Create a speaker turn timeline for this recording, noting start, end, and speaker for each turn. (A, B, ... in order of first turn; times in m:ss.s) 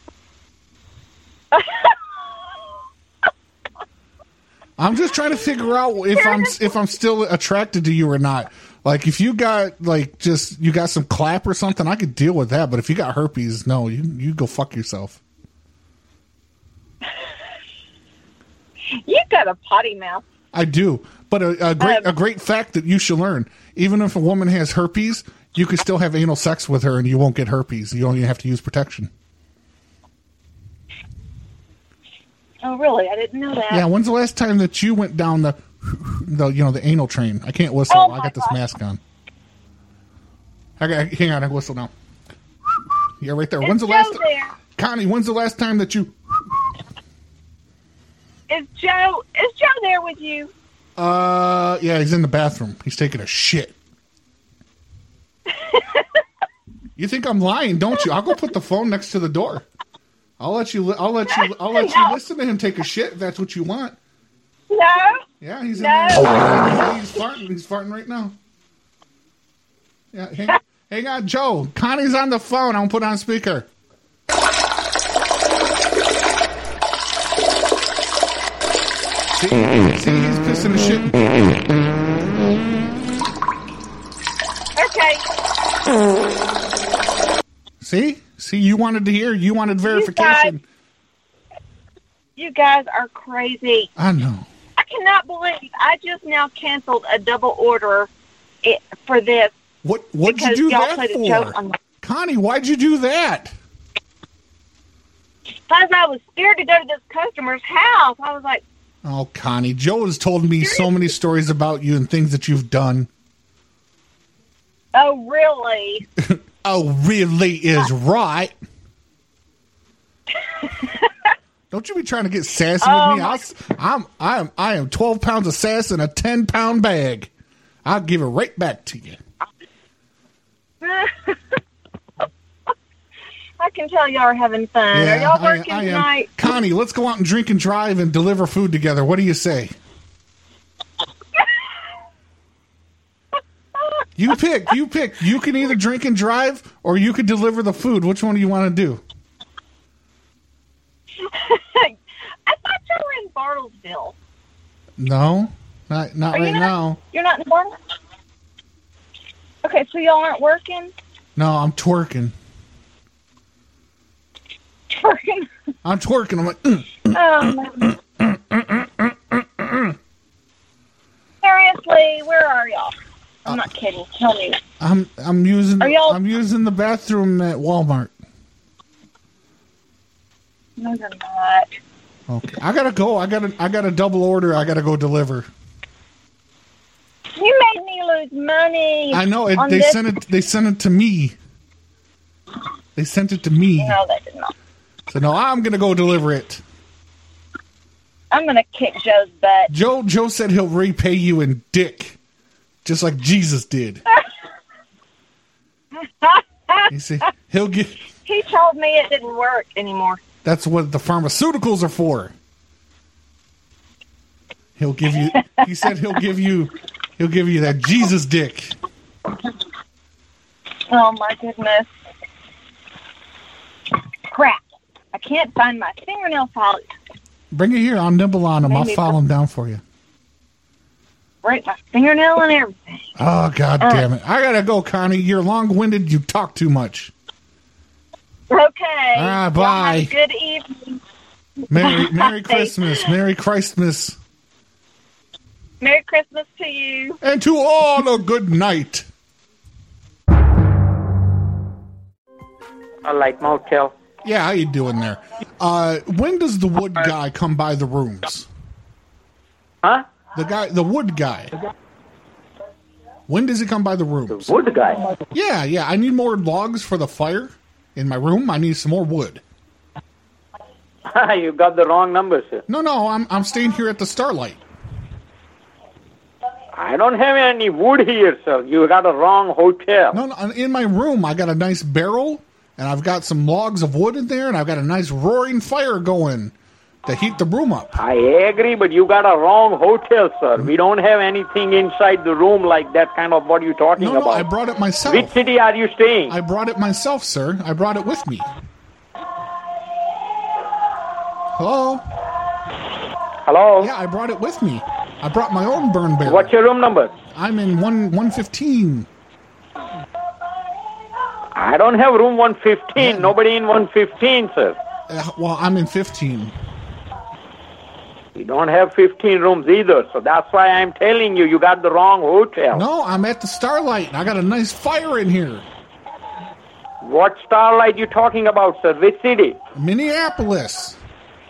0:01.5-0:01.9 A
0:04.8-0:15.2 B
0:06.2-0:06.7 A
0:19.0-0:20.2 A
0:20.5-0:29.1 B
0:21.8-0:22.1 A
0:32.6-0:33.8 A
0:33.7-0:39.0 B
0:37.9-0:38.6 A
0:40.8-0:41.9 B
0:43.2-0:44.2 B
0:43.6-0:44.6 A
0:44.8-0:46.1 B
0:48.5-0:50.5 A
0:51.0-0:53.8 B
0:55.6-0:56.0 A
0:57.0-0:59.7 B
1:00.4-1:04.0 B
1:01.3-1:02.1 A
1:04.7-1:05.2 A
1:05.4-1:08.4 B
1:05.8-1:06.5 A
1:10.1-1:13.7 B
1:19.3-1:21.4 B
1:24.8-1:25.2 A
1:27.8-1:30.6 B
1:29.9-1:30.6 A
1:32.4-1:33.9 A
1:34.0-1:34.5 B
1:34.8-1:38.1 A
1:38.6-1:39.5 A
1:39.8-1:43.5 B
1:40.3-1:41.8 A
1:45.7-1:48.6 A
1:49.0-1:53.1 B
1:50.6-1:50.9 A
1:55.0-1:56.0 A
1:56.2-1:58.5 B
2:01.7-2:07.3 B
2:02.8-2:03.4 A
2:07.8-2:09.2 B
2:10.8-2:11.4 A
2:13.6-2:16.4 A
2:14.9-2:19.8 B
2:24.2-2:29.0 B
2:31.2-2:32.0 A
2:32.5-2:34.2 A
2:35.0-2:37.0 B
2:36.3-2:37.7 A
2:39.6-2:40.9 A
2:41.4-2:42.3 B
2:44.9-2:45.5 A
2:45.8-2:47.1 B
2:47.1-2:47.9 A
2:51.4-2:53.0 A
2:53.5-2:54.6 A
2:54.8-2:58.2 B
2:55.8-2:56.2 A
3:00.8-3:01.8 A
3:02.3-3:05.5 B
3:07.4-3:10.0 A
3:09.1-3:11.4 B
3:13.0-3:14.0 B
3:13.8-3:14.5 A
3:15.1-3:16.6 B
3:18.3-3:19.7 A
3:19.7-3:22.2 B
3:22.8-3:24.0 B
3:26.2-3:26.8 A
3:26.9-3:28.0 B
3:28.3-3:30.2 A
3:30.4-3:32.3 B
3:34.8-3:38.8 B
3:40.9-3:41.9 A
3:44.3-3:46.9 A
3:47.5-3:49.8 B
3:48.6-3:49.2 A
3:51.4-3:53.0 A
3:53.2-3:57.1 B
3:58.5-4:01.0 A
3:59.2-4:00.1 B
4:01.7-4:04.2 B
4:01.8-4:02.8 A
4:05.8-4:07.2 A
4:07.2-4:09.1 B
4:13.0-4:13.9 C
4:14.2-4:18.5 B
4:20.4-4:21.5 B
4:23.3-4:24.6 B
4:24.3-4:25.1 C
4:25.3-4:29.4 B
4:31.1-4:32.6 C
4:32.7-4:34.6 B
4:36.8-4:40.2 C
4:40.1-4:46.5 B
4:47.1-4:48.0 B
4:48.0-4:54.5 C
4:54.0-4:55.4 B
4:55.1-4:56.3 C
4:56.3-4:58.5 B
5:01.6-5:02.0 B
5:03.5-5:03.9 C
5:03.8-5:06.5 B
5:06.2-5:07.1 C
5:07.3-5:09.1 B
5:11.6-5:14.8 C
5:13.0-5:13.3 B
5:15.1-5:16.5 B
5:18.4-5:22.8 C
5:22.7-5:25.7 B
5:27.0-5:29.6 C
5:29.7-5:31.0 B